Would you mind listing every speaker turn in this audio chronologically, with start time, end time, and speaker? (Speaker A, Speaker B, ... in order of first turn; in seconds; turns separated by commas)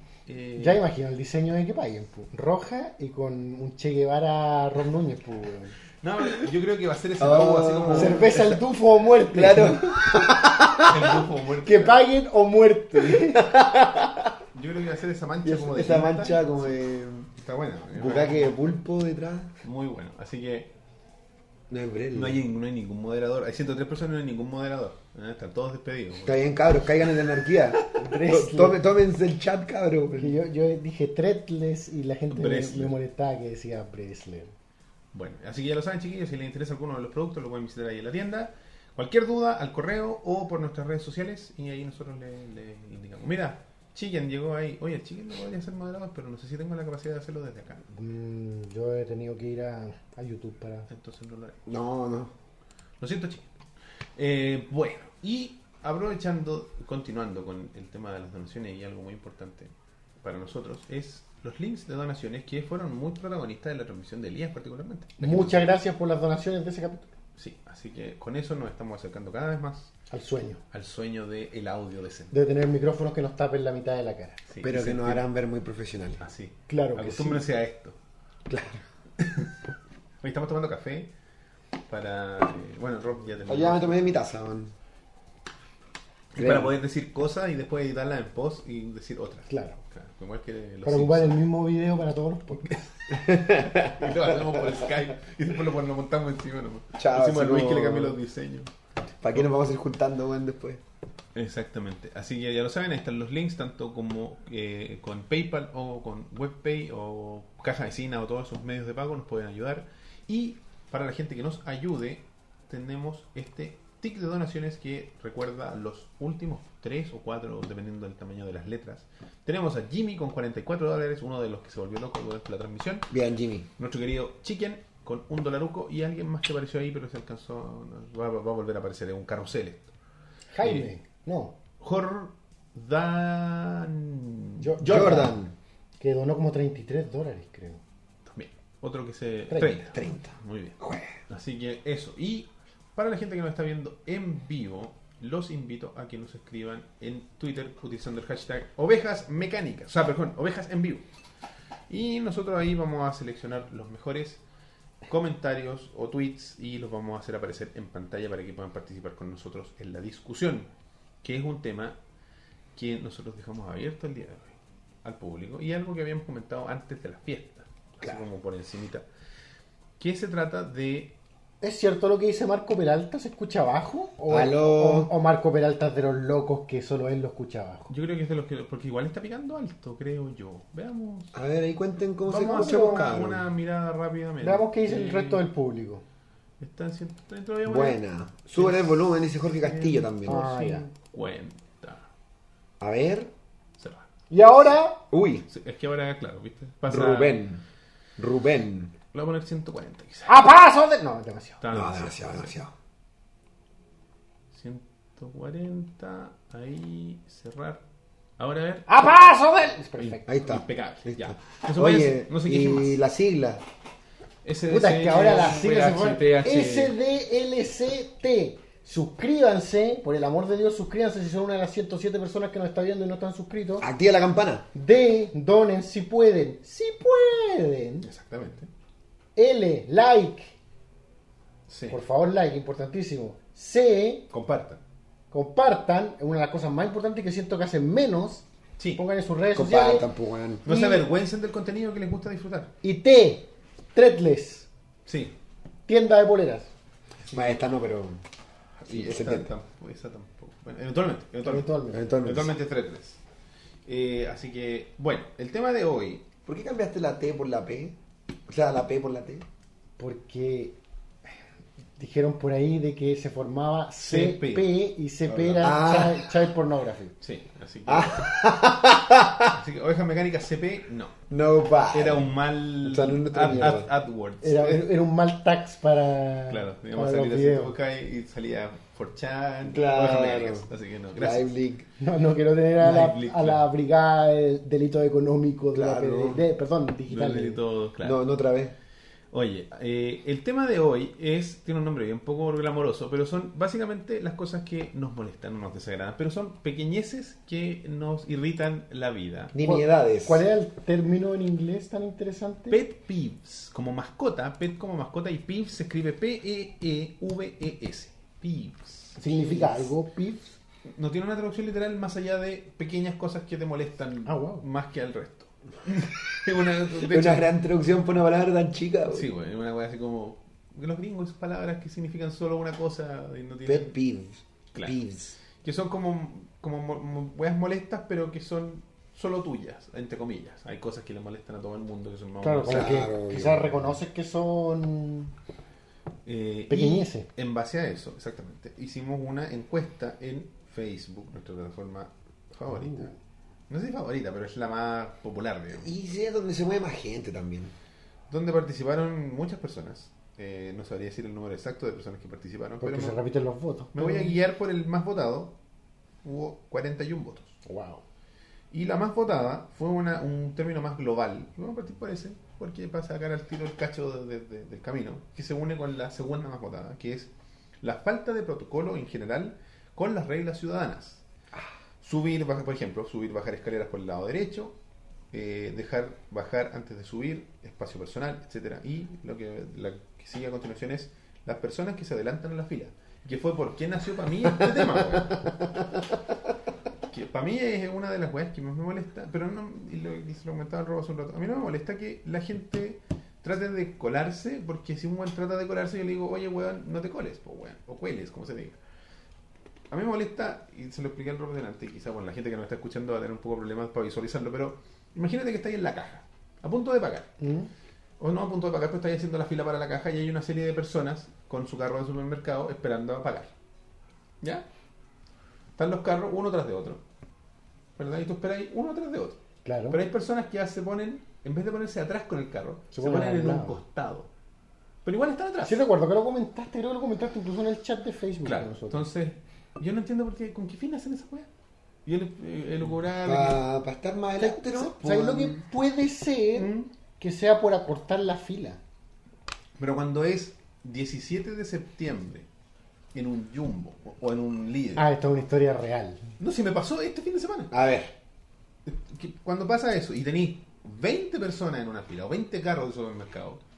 Speaker A: 0.3-0.8, Speaker B: 0.6-5.8, Speaker A: 6.0-8.4, Speaker C: 7.2-8.6, Speaker B: 7.9-10.1, Speaker C: 9.2-11.2, Speaker A: 10.7-12.0, Speaker B: 11.6-13.4, Speaker C: 13.1-14.3, Speaker A: 14.5-16.7, Speaker C: 15.4-17.3, Speaker A: 17.4-18.6, Speaker C: 17.9-19.5, Speaker A: 19.6-20.7, Speaker C: 21.7-22.4, Speaker A: 22.1-26.5, Speaker C: 26.2-30.4, Speaker B: 27.9-28.8, Speaker B: 30.1-34.5, Speaker A: 32.3-32.9, Speaker A: 35.1-47.8, Speaker B: 47.9-50.9, Speaker A: 50.9-51.6, Speaker C: 51.7-52.3, Speaker A: 53.0-53.5, Speaker A: 54.2-59.7, Speaker A: 60.2-65.7, Speaker B: 65.2-67.1, Speaker A: 67.4-69.9, Speaker B: 70.1-70.6, Speaker A: 70.7-72.3, Speaker B: 72.3-74.4, Speaker A: 74.5-75.2, Speaker C: 74.6-76.2, Speaker A: 76.2-78.0, Speaker B: 76.7-77.4, Speaker B: 78.5-78.8, Speaker A: 80.2-81.1, Speaker A: 81.9-84.2, Speaker C: 83.5-84.7, Speaker A: 86.3-91.5, Speaker C: 86.4-86.7, Speaker B: 89.5-89.8, Speaker B: 90.8-92.7, Speaker A: 92.6-98.7, Speaker C: 93.1-94.9, Speaker C: 97.0-98.2, Speaker C: 99.2-100.8, Speaker A: 101.3-123.1, Speaker C: 123.1-123.7, Speaker A: 123.8-129.9, Speaker B: 130.5-131.6, Speaker A: 131.8-135.3, Speaker B: 134.6-135.4, Speaker C: 134.8-135.5, Speaker B: 136.0-137.8, Speaker A: 138.3-151.0, Speaker C: 139.9-141.2, Speaker A: 151.9-154.4, Speaker A: 155.1-160.7, Speaker A: 161.2-162.0, Speaker A: 162.8-169.1, Speaker A: 170.0-171.2, Speaker B: 171.6-177.9, Speaker C: 174.3-175.1, Speaker A: 177.9-181.3, Speaker C: 181.3-183.5, Speaker A: 182.2-185.4, Speaker B: 182.5-183.2, Speaker B: 184.4-186.0, Speaker A: 186.6-188.0, Speaker C: 187.7-190.5, Speaker A: 188.6-192.1, Speaker B: 190.2-190.9, Speaker C: 192.8-193.3, Speaker A: 193.8-194.1, Speaker B: 194.3-195.0, Speaker C: 195.1-195.5, Speaker A: 195.5-197.5, Speaker C: 196.9-197.6, Speaker C: 198.2-198.9, Speaker A: 199.1-200.3, Speaker B: 200.3-201.6, Speaker A: 201.6-202.6, Speaker C: 201.7-202.7, Speaker A: 204.5-207.8, Speaker A: 208.4-208.9, Speaker B: 208.9-210.3, Speaker A: 210.0-213.0, Speaker C: 210.3-213.6, Speaker A: 214.4-217.0, Speaker B: 214.7-223.9, Speaker C: 223.8-224.7, Speaker B: 224.7-228.1, Speaker A: 228.0-228.7, Speaker B: 229.4-230.6, Speaker A: 231.7-232.0, Speaker B: 231.9-234.3, Speaker A: 234.3-234.8, Speaker B: 235.3-238.4, Speaker B: 239.0-240.1, Speaker C: 239.5-240.7, Speaker B: 240.7-241.0, Speaker A: 240.7-242.7, Speaker B: 242.8-244.7, Speaker A: 245.1-245.3, Speaker B: 245.9-246.7, Speaker A: 247.2-247.6, Speaker C: 247.3-248.2, Speaker A: 248.8-253.2, Speaker C: 248.9-249.5, Speaker B: 251.4-252.1, Speaker C: 251.9-252.5, Speaker A: 253.9-256.3, Speaker C: 256.4-257.9, Speaker C: 258.5-259.4, Speaker B: 260.0-260.8, Speaker B: 262.0-267.1, Speaker A: 264.0-264.7, Speaker C: 265.3-266.3, Speaker A: 267.2-268.3, Speaker C: 267.9-269.5, Speaker A: 269.5-271.2, Speaker C: 271.3-272.3, Speaker A: 271.9-274.9, Speaker C: 272.8-273.9, Speaker B: 274.4-277.8, Speaker A: 276.5-281.5, Speaker C: 279.7-281.9, Speaker B: 282.0-287.6, Speaker A: 282.8-283.6, Speaker C: 285.7-286.4, Speaker A: 287.1-288.2, Speaker C: 288.0-288.7, Speaker A: 289.3-299.5, Speaker C: 299.5-300.4, Speaker B: 299.6-302.8, Speaker A: 302.7-309.2, Speaker B: 309.2-310.5, Speaker C: 309.3-309.9, Speaker A: 310.9-317.5, Speaker B: 314.3-314.6, Speaker C: 317.1-319.3, Speaker A: 319.1-323.9, Speaker C: 323.7-325.4, Speaker A: 325.6-333.1, Speaker B: 332.4-335.3, Speaker C: 332.7-333.8, Speaker A: 336.3-343.1, Speaker B: 336.7-337.3, Speaker B: 342.7-343.1, Speaker A: 343.7-345.9, Speaker C: 345.8-347.7, Speaker A: 348.3-353.2, Speaker B: 352.8-354.4, Speaker A: 353.9-355.5, Speaker A: 356.2-357.6, Speaker B: 357.6-358.0, Speaker A: 358.7-371.2, Speaker A: 372.0-374.8, Speaker A: 375.3-385.5, Speaker A: 387.1-398.8, Speaker A: 399.9-407.3, Speaker B: 407.4-407.7, Speaker A: 408.2-413.5, Speaker A: 415.8-417.0, Speaker A: 418.0-424.3, Speaker B: 419.6-420.0, Speaker B: 422.9-423.8, Speaker A: 425.0-425.8, Speaker B: 425.6-429.1, Speaker A: 428.4-431.5, Speaker A: 432.1-433.6, Speaker C: 433.2-435.6, Speaker B: 434.4-438.8, Speaker A: 436.6-436.9, Speaker A: 439.8-442.5, Speaker A: 443.1-445.1, Speaker B: 445.0-446.2, Speaker A: 446.4-447.7, Speaker C: 447.7-448.1, Speaker A: 448.9-453.6